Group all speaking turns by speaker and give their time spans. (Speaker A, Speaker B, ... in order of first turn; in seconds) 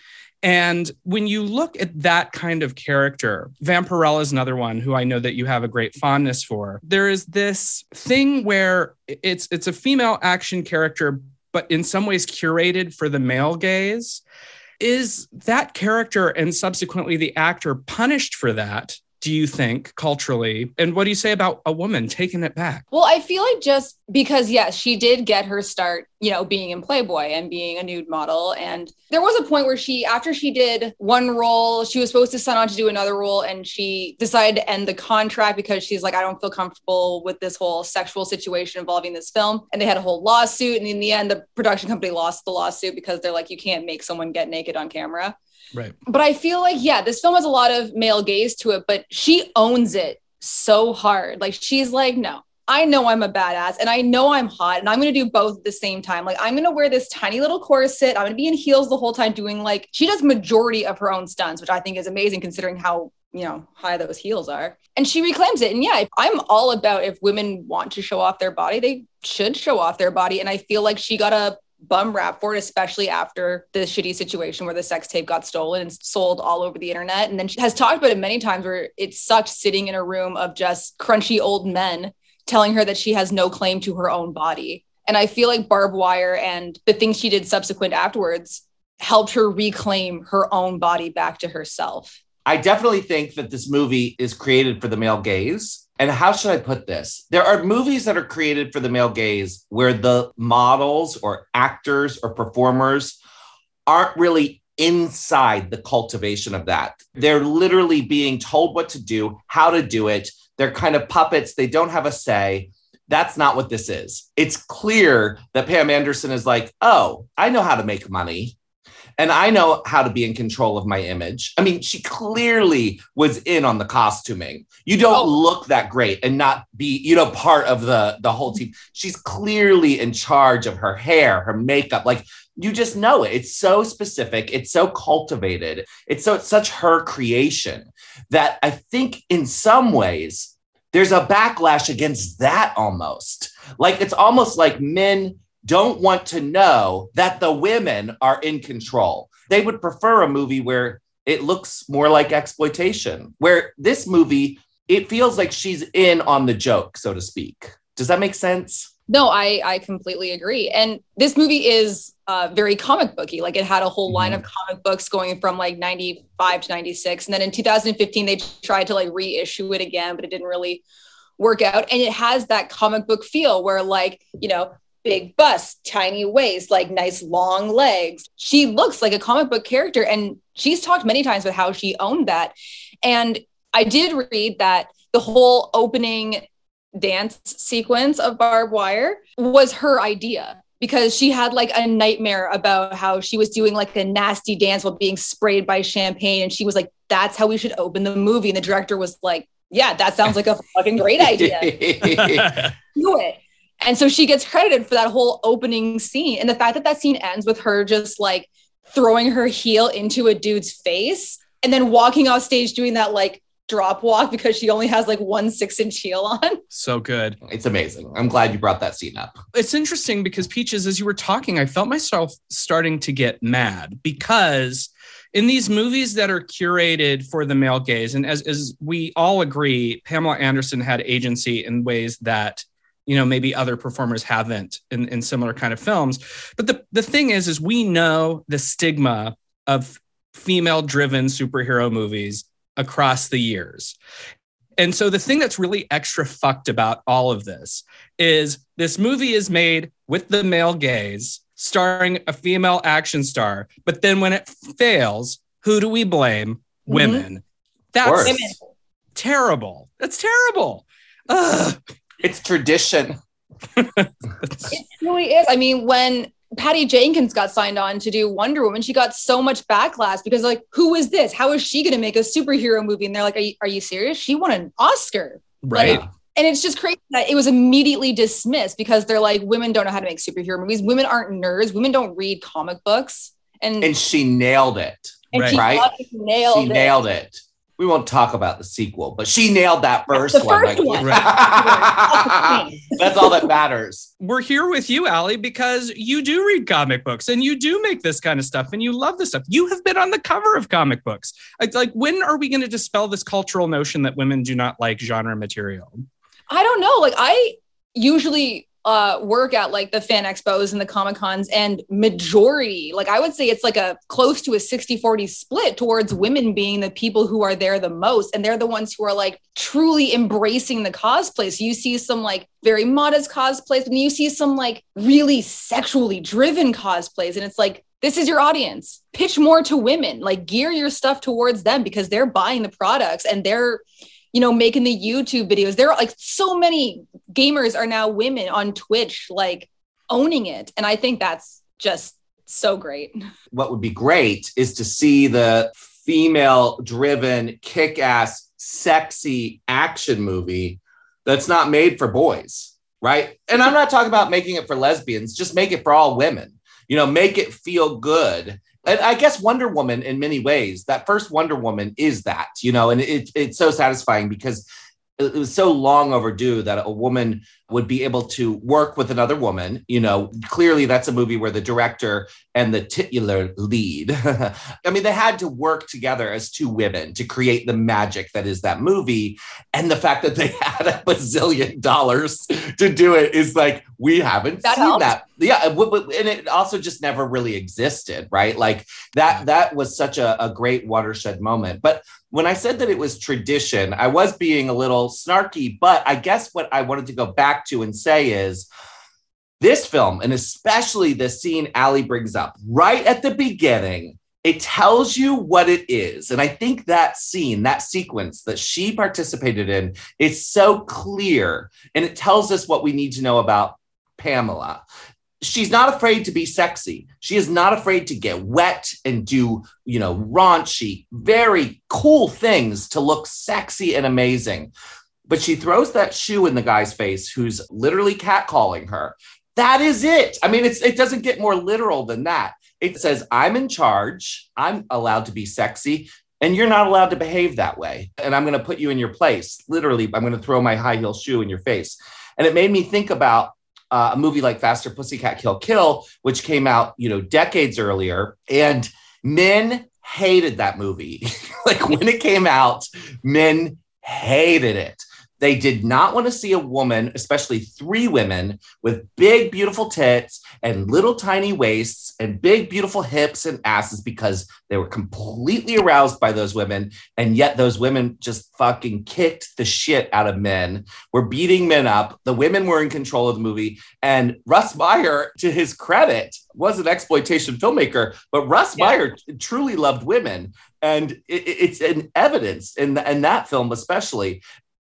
Speaker A: 0.4-14.2, 14.8-22.8, 202.2-202.7, 216.7-217.4, 219.5-243.9, 244.8-257.4, 257.9-258.6, 259.1-261.8, 263.8-264.7, 275.6-276.0, 285.3-285.6, 291.0-291.3, 294.2-306.1
Speaker B: 22.9-45.4, 46.1-92.2, 159.1-170.8, 171.4-186.4, 186.9-201.9, 202.9-216.6, 256.9-257.2, 258.2-258.5, 264.7-283.9, 285.3-286.9, 290.3-293.3, 306.5-333.8, 334.3-343.1, 384.6-385.1
Speaker C: 92.5-103.2, 103.9-118.5, 119.2-158.9, 201.2-202.6, 217.4-219.4, 258.0-258.4, 262.2-263.2, 275.8-276.1, 283.8-285.9, 286.4-294.1, 343.5-364.6, 365.2-398.7, 399.6-414.8, 415.4-424.7, 425.3-484.4